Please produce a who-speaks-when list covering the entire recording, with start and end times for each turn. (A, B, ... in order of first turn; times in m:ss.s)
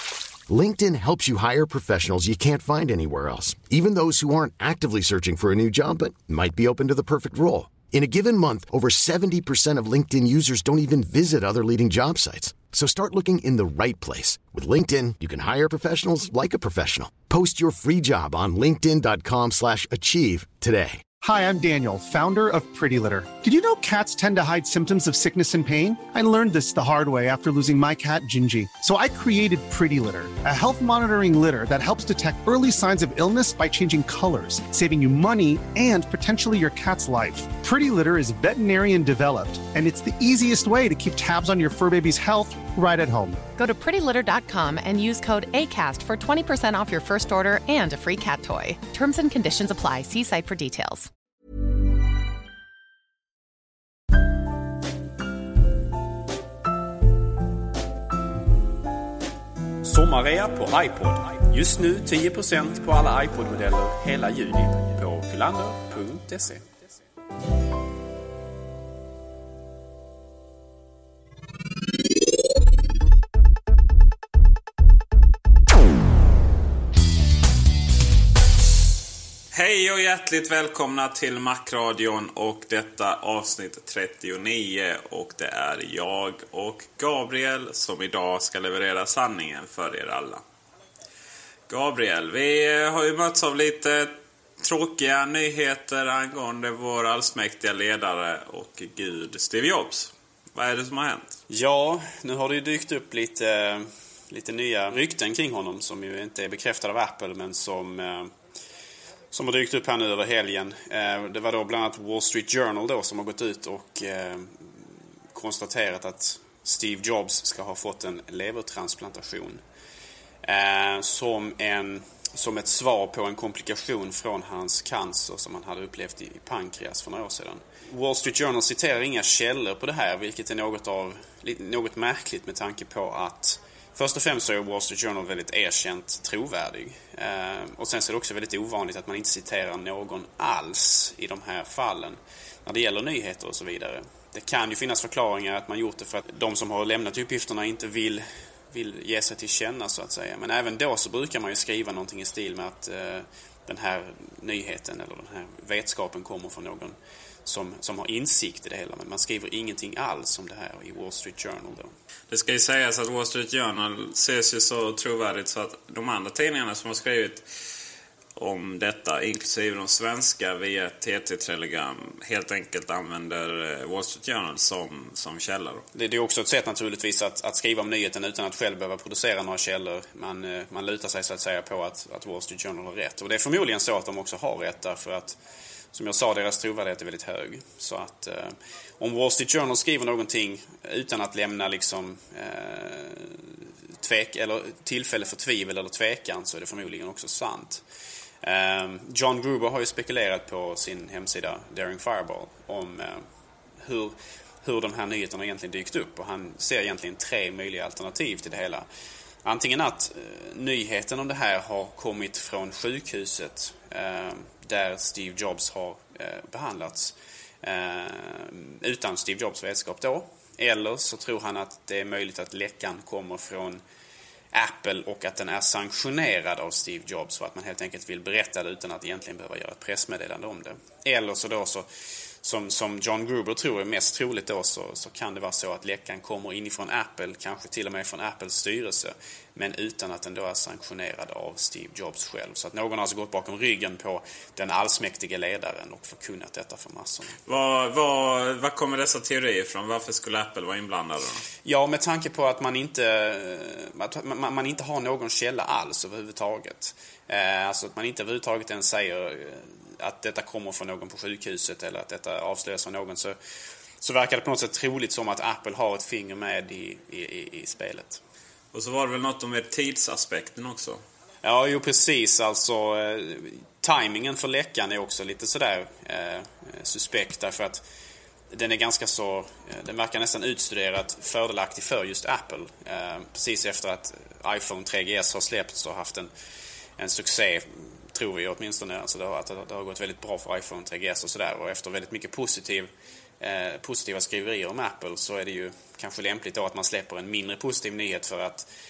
0:00.5-0:21.0 A
0:21.2-0:43.4 B
0:43.6-0:51.1 C
0:59.8-1:06.6 D
1:19.5-1:30.4 E
1:31.7-1:41.4 E
1:41.5-1:48.3 D
1:49.3-1:54.7 D
1:55.3-1:59.6 D
2:00.4-2:41.9 D
2:42.3-2:47.4 E
2:48.4-2:55.8 E
2:55.9-3:05.4 D
3:05.9-3:17.8 D
3:18.4-3:23.2 D
3:23.8-3:28.8 D
3:29.4-3:43.8 D
3:44.5-3:51.9 D
3:52.4-4:07.3 D
4:07.4-4:11.4 E
4:11.6-4:23.3 D
4:24.0-4:28.2 D
4:28.7-4:31.0 E
4:31.4-4:37.8 D
4:38.5-4:46.3 D
4:47.0-4:58.7 D